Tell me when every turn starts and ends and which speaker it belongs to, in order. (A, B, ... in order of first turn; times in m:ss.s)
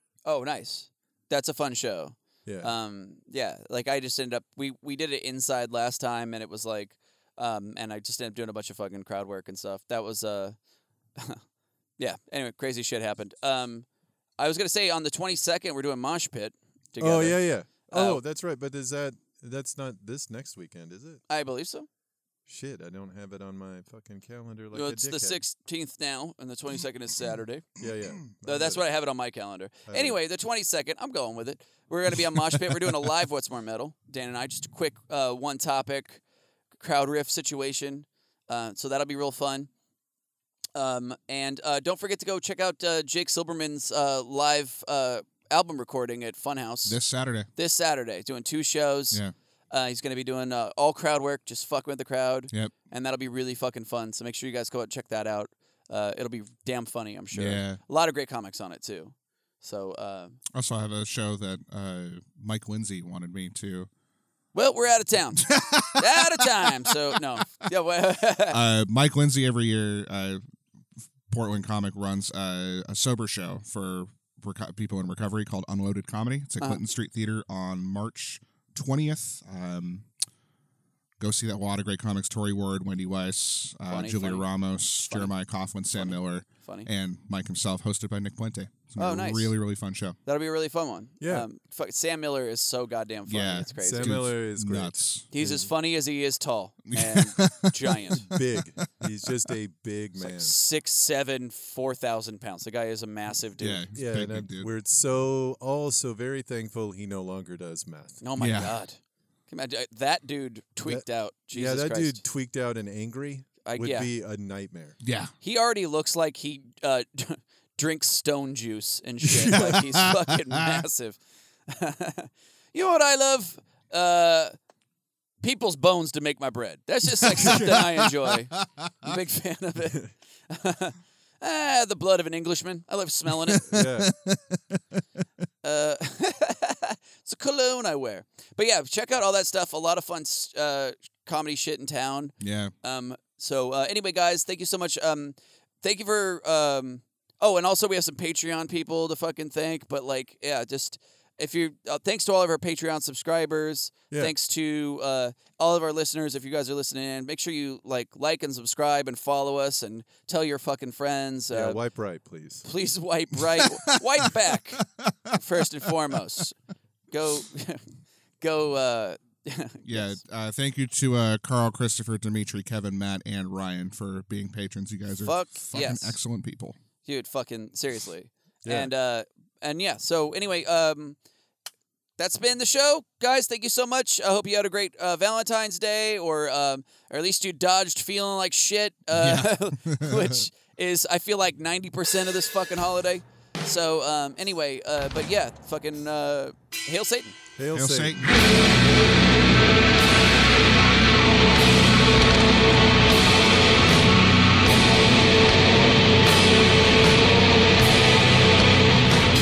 0:00.2-0:10.6 A
0:02.4-0:02.7 B
0:11.2-0:11.4 A
0:12.0-0:13.8 A
0:14.4-0:18.2 A
0:17.0-0:21.2 B
0:21.3-0:21.9 A
0:22.4-0:25.4 B
0:24.7-0:27.7 A
0:27.8-0:28.8 B
0:28.4-0:36.2 A
0:29.9-0:30.2 B
0:36.8-0:39.7 A
0:40.7-0:47.0 A
0:46.8-0:47.5 C
0:47.6-0:49.2 A
0:49.7-1:00.4 A
0:57.3-0:57.8 C
1:00.5-1:03.9 C
1:04.5-1:08.6 A
1:05.4-1:06.4 C
1:08.5-1:10.4 C
1:11.3-1:20.0 C
1:21.2-1:30.2 C
1:23.9-1:25.3 A
1:25.9-1:26.9 A
1:29.0-1:29.5 A
1:30.2-1:34.3 A
1:31.2-1:31.5 B
1:33.3-1:35.3 C
1:33.8-1:35.7 B
1:35.3-1:38.3 A
1:36.9-1:38.2 C
1:38.3-1:40.5 B
1:40.2-1:43.8 A
1:43.6-1:44.7 C
1:43.9-1:48.2 B
1:48.2-1:52.2 A
1:48.4-1:48.8 C
1:50.8-1:55.0 B
1:53.6-1:54.1 A
1:55.0-1:55.3 C
1:55.4-2:04.5 A
1:59.3-1:59.8 B
1:59.5-2:00.2 C
2:05.4-2:13.7 A
2:07.4-2:09.1 C
2:07.4-2:07.7 B
2:13.7-2:14.1 B
2:13.8-2:14.8 C
2:15.6-2:41.8 A
2:22.4-2:22.7 C
2:41.5-2:42.6 B
2:42.6-2:44.8 A
2:45.3-2:46.6 A
2:47.1-2:50.2 A
2:49.9-2:56.8 C
2:55.2-2:56.2 A
2:57.0-3:01.2 A
2:58.6-2:58.9 B
3:02.2-3:17.4 A
3:09.1-3:10.4 C
3:17.6-3:18.2 B
3:17.7-3:18.4 C